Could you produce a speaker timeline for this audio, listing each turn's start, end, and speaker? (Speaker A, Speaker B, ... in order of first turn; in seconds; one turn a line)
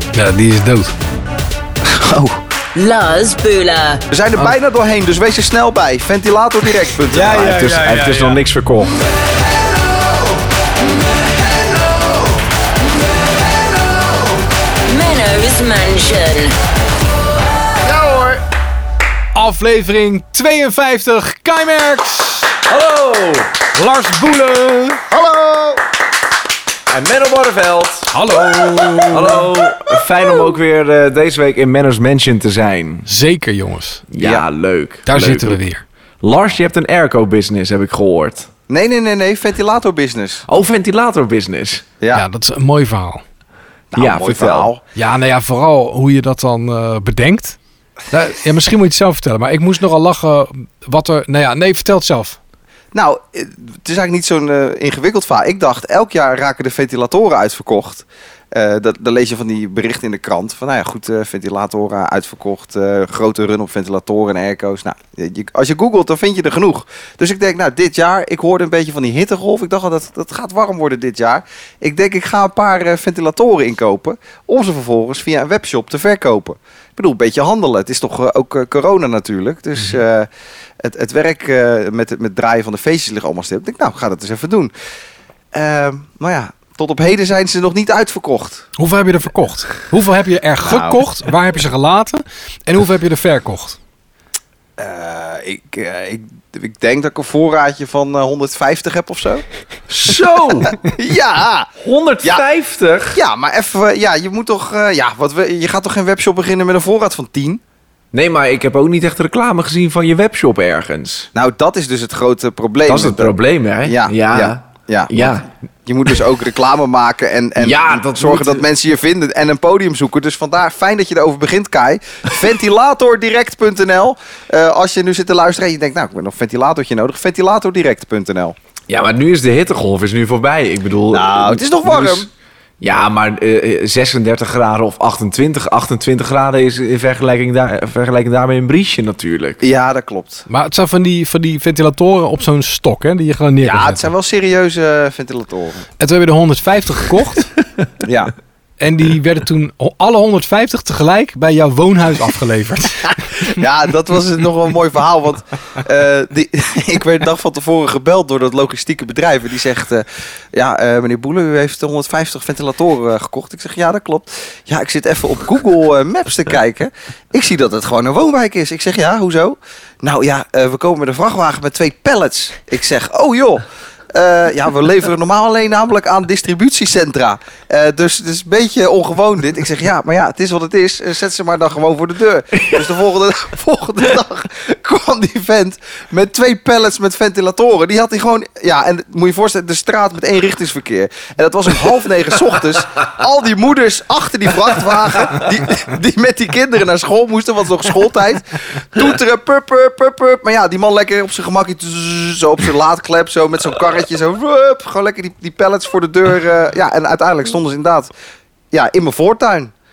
Speaker A: 0.1-0.9
Speaker B: 1.8-2.4
Speaker C: 2.8-4.0
Speaker B: 4.1-7.5
Speaker A: 7.1-8.4
Speaker D: 7.2-8.9
Speaker C: 14.8-16.6
Speaker B: 17.8-18.4
Speaker A: 19.4-22.6
Speaker D: 22.7-23.6
Speaker A: 23.7-25.0
Speaker B: 25.1-25.8
Speaker D: 26.9-28.1
Speaker A: 28.1-29.4
Speaker D: 29.1-33.1
Speaker A: 33.1-34.0
Speaker D: 34.1-35.6
Speaker B: 34.2-34.5
Speaker A: 35.1-35.8
Speaker D: 36.2-38.5
Speaker B: 38.7-40.5
Speaker D: 40.5-41.9
Speaker A: 42.1-43.2
Speaker B: 43.9-44.8
Speaker D: 44.0-44.7
Speaker A: 45.0-47.6
Speaker A: 48.1-52.4
Speaker B: 52.9-80.3
Speaker B: 80.8-84.7
Speaker B: 85.5-88.7
Speaker A: 88.8-93.8
Speaker B: 90.6-91.0
Speaker B: 94.8-99.4
Speaker D: 99.9-100.8
Speaker B: 100.6-101.7
Speaker D: 101.8-103.2
Speaker B: 103.1-107.6
Speaker D: 108.1-111.3
Speaker B: 111.3-128.6
Speaker D: 112.9-115.5
Speaker D: 117.6-118.7
Speaker D: 128.9-132.3
Speaker B: 131.1-132.3
Speaker D: 132.8-139.6
Speaker B: 139.6-140.5
Speaker A: 140.5-144.1
Speaker B: 143.6-145.9
Speaker A: 146.0-147.5
Speaker B: 148.0-148.3
Speaker A: 148.8-153.6
Speaker B: 153.5-208.1
Speaker D: 182.6-182.8
Speaker B: 208.7-209.7